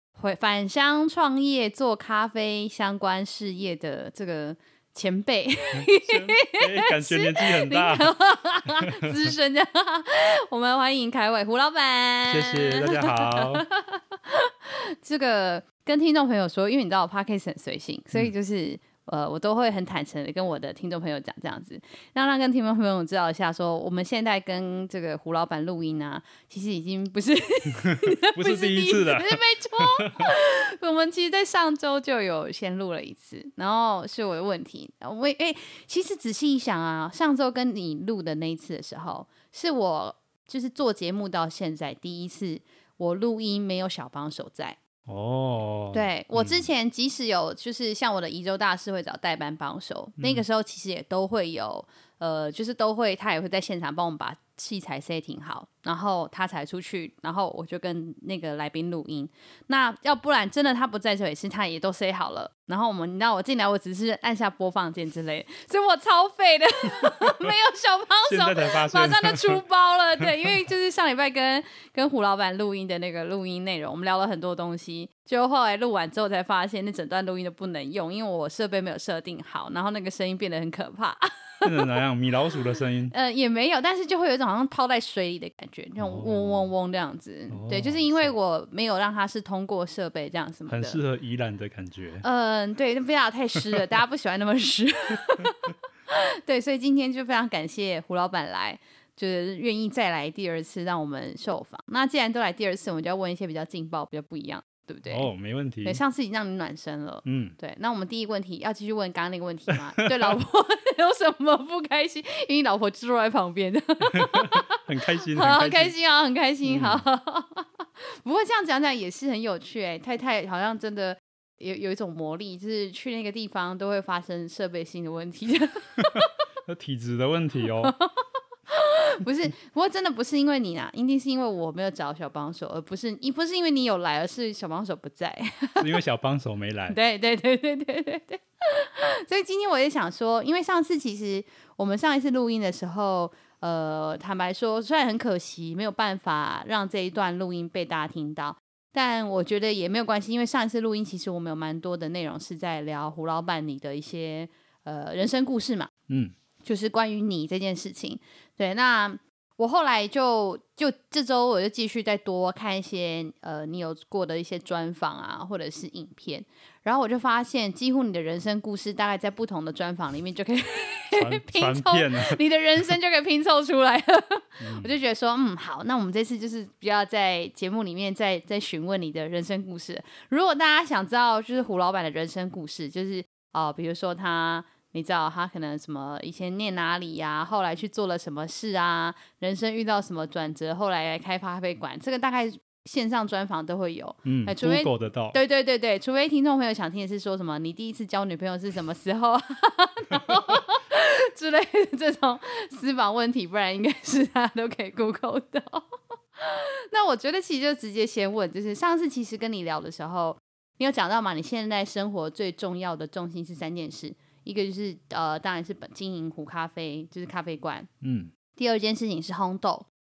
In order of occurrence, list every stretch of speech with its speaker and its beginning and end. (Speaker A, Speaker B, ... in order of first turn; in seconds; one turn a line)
Speaker A: 0.1-44.8
Speaker B: 5.7-8.1
Speaker B: 8.8-9.3
Speaker B: 12.2-13.6
Speaker B: 27.8-30.3
Speaker B: 45.1-46.7
Speaker A: 45.9-81.9
Speaker B: 50.2-50.4
Speaker B: 67.0-67.5
Speaker B: 68.2-69.6
Speaker B: 81.6-83.1
Speaker A: 83.1-91.0
Speaker B: 86.0-86.6
Speaker B: 87.5-88.3
Speaker B: 90.7-92.2
Speaker A: 92.2-105.3
Speaker B: 105.1-106.0
Speaker A: 105.8-126.2
Speaker B: 107.2-107.5
Speaker B: 110.0-110.3
Speaker B: 114.1-115.9
Speaker B: 116.6-117.0
Speaker B: 126.0-127.9
Speaker A: 127.8-128.1
Speaker A: 128.7-136.0
Speaker B: 135.8-137.0
Speaker A: 136.9-155.9
Speaker A: 156.6-205.8
Speaker B: 171.1-172.4
Speaker B: 174.6-174.9
Speaker B: 194.2-195.4
Speaker A: 206.3-217.9
Speaker B: 218.0-218.3
Speaker A: 218.6-219.9